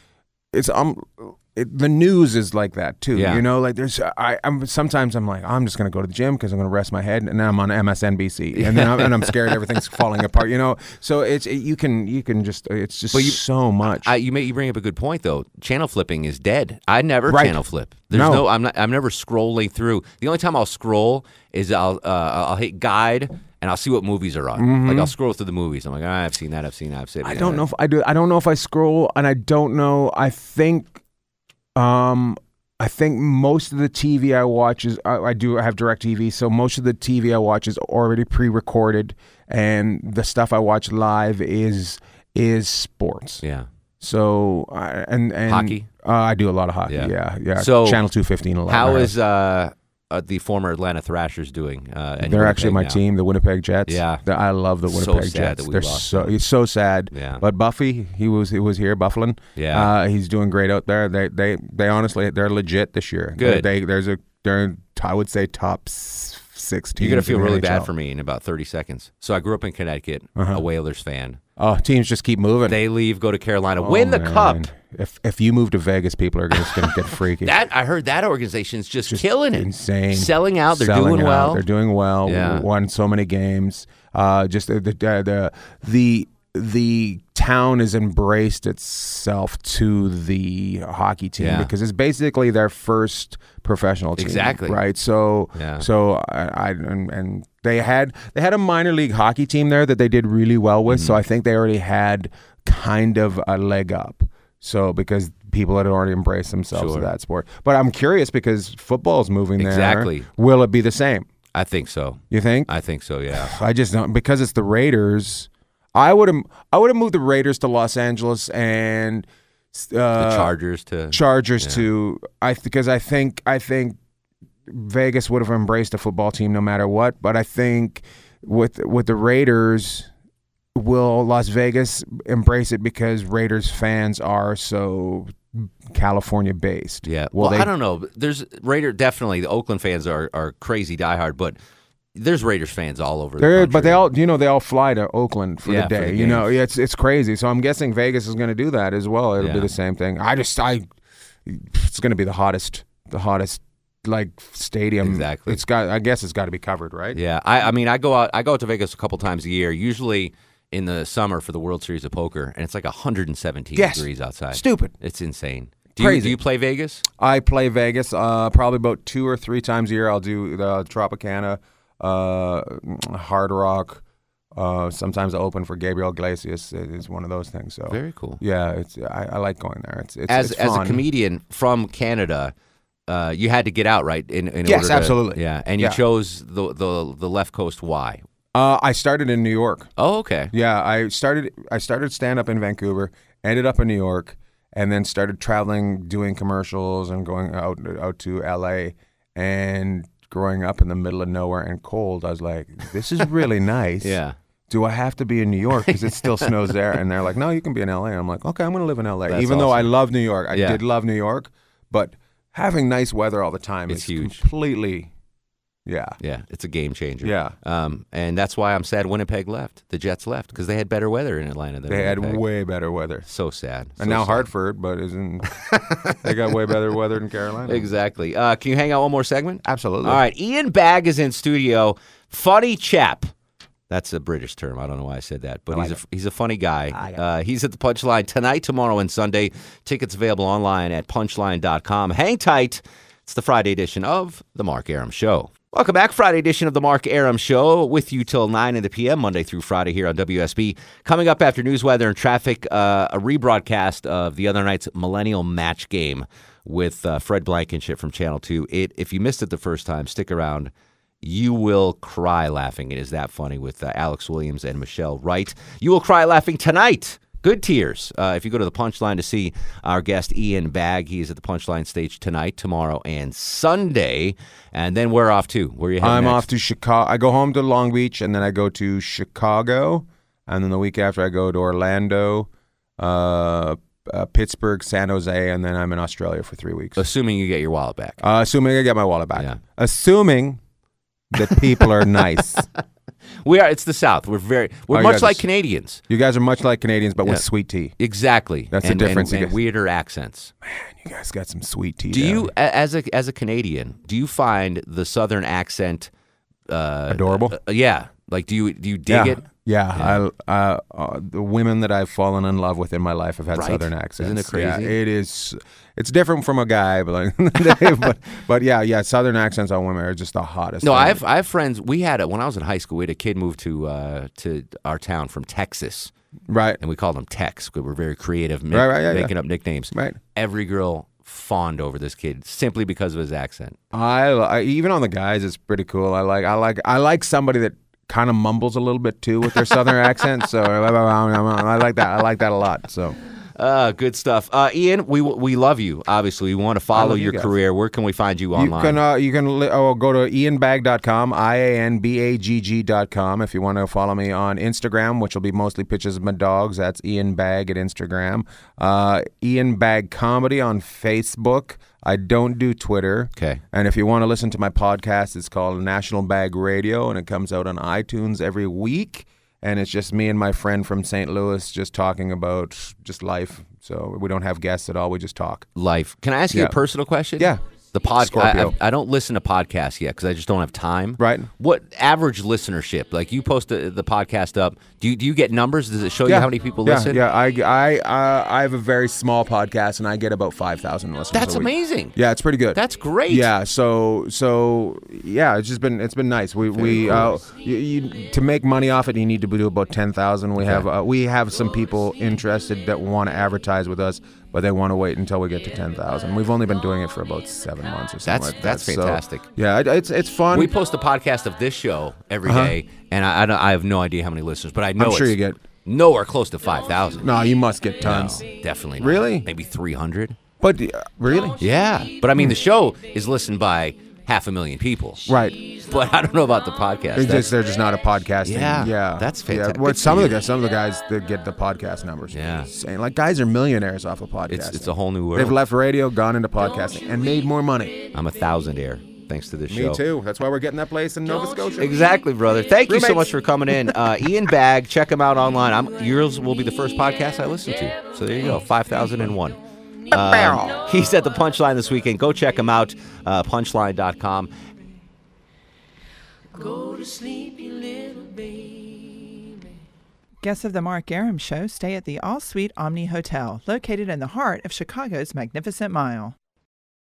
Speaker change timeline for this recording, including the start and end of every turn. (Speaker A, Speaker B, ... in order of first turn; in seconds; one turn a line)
Speaker A: 0.5-14.1
Speaker B: 3.1-3.4
Speaker B: 8.6-9.6
Speaker B: 13.1-27.6
Speaker A: 17.3-18.4
Speaker A: 24.6-25.1
Speaker A: 27.2-31.0
Speaker A: 31.8-43.4
Speaker B: 43.4-43.7
Speaker A: 44.0-49.1
Speaker B: 45.5-45.9
Speaker B: 46.9-48.0
Speaker B: 48.7-53.0
Speaker A: 52.2-67.9
Speaker B: 53.9-54.2
Speaker B: 54.9-56.4
Speaker B: 57.1-57.4
Speaker B: 59.6-59.9
Speaker B: 63.4-63.7
Speaker B: 67.0-71.4
Speaker A: 70.4-70.6
Speaker A: 71.6-72.8
Speaker B: 72.7-74.7
Speaker A: 73.8-77.6
Speaker B: 76.6-81.6
Speaker A: 79.1-111.3
Speaker B: 82.2-82.7
Speaker B: 91.4-91.7
Speaker B: 94.2-94.8
Speaker B: 95.5-95.9
Speaker B: 100.9-101.2
Speaker B: 106.7-107.1
Speaker B: 109.6-110.3
Speaker B: 111.5-113.5
Speaker A: 112.3-112.7
Speaker A: 113.3-120.5
Speaker B: 120.2-121.9
Speaker A: 121.1-124.0
Speaker A: 124.7-130.1
Speaker A: 130.8-137.7
Speaker B: 137.0-141.6
Speaker B: 142.1-144.1
Speaker A: 143.4-150.9
Speaker B: 145.6-146.5
Speaker B: 149.4-149.7
Speaker A: 151.4-157.2
Speaker B: 155.0-155.6
Speaker B: 157.1-167.0
Speaker A: 163.8-164.9
Speaker A: 166.0-166.4
Speaker A: 167.2-174.0
Speaker A: 174.6-181.1
Speaker B: 177.9-178.4
Speaker B: 180.3-182.5
Speaker B: 183.1-188.2
Speaker A: 184.6-186.0
Speaker A: 188.6-189.9
Speaker B: 190.0-190.5
Speaker A: 190.5-215.1
Speaker B: 204.0-204.4
Speaker B: 205.8-206.5
Speaker B: 209.3-209.9
Speaker B: 210.5-210.8
Speaker B: 213.9-214.4
Speaker A: 215.8-216.2
Speaker B: 216.2-222.4
Speaker A: 217.2-217.6
Speaker A: 221.9-223.3
Speaker B: 223.3-224.5
Speaker A: 224.0-227.9
Speaker B: 225.6-226.7
Speaker B: 227.7-233.3
Speaker A: 229.6-230.2
Speaker B: 233.9-276.5
Speaker A: 235.7-236.0
Speaker A: 236.9-237.2
Speaker A: 276.0-287.1
Speaker B: 287.0-288.2
Speaker A: 288.2-290.6
Speaker A: 291.3-292.7
Speaker B: 291.8-292.6
Speaker B: 293.4-296.0
Speaker A: 294.9-295.4
Speaker A: 296.0-298.0
Speaker B: 298.0-300.5
Speaker A: 298.7-299.6
Speaker A: 300.6-302.5
Speaker B: 302.1-306.1
Speaker B: 306.7-310.2
Speaker A: 307.1-307.6
Speaker A: 309.1-321.2
Speaker B: 313.5-314.9
Speaker B: 320.8-326.1
Speaker A: 326.5-326.8
Speaker B: 326.8-333.8
Speaker A: 328.7-329.3
Speaker A: 329.9-330.2
Speaker A: 333.9-343.2
Speaker B: 343.6-349.0
Speaker A: 346.9-347.6
Speaker A: 348.6-375.7
Speaker B: 363.4-363.6
Speaker B: 375.8-387.2
Speaker A: 376.5-376.8
Speaker A: 378.2-378.8
Speaker A: 381.2-381.5
Speaker A: 386.2-410.7
Speaker B: 391.3-392.1
Speaker B: 392.7-393.5
Speaker B: 396.7-397.3
Speaker B: 400.6-400.9
Speaker B: 408.2-409.4
Speaker B: 410.5-417.3
Speaker A: 412.4-412.8
Speaker A: 415.0-415.6
Speaker A: 417.2-418.4
Speaker B: 418.0-420.4
Speaker A: 419.0-419.5
Speaker A: 420.6-421.6
Speaker B: 421.6-427.6
Speaker A: 425.3-425.6
Speaker A: 427.1-438.0
Speaker B: 428.4-430.4
Speaker B: 432.3-432.7
Speaker B: 434.5-435.6
Speaker B: 438.1-440.0
Speaker A: 439.7-442.1
Speaker B: 441.8-454.5
Speaker A: 442.9-443.3
Speaker A: 450.1-450.8
Speaker C: 460.4-466.4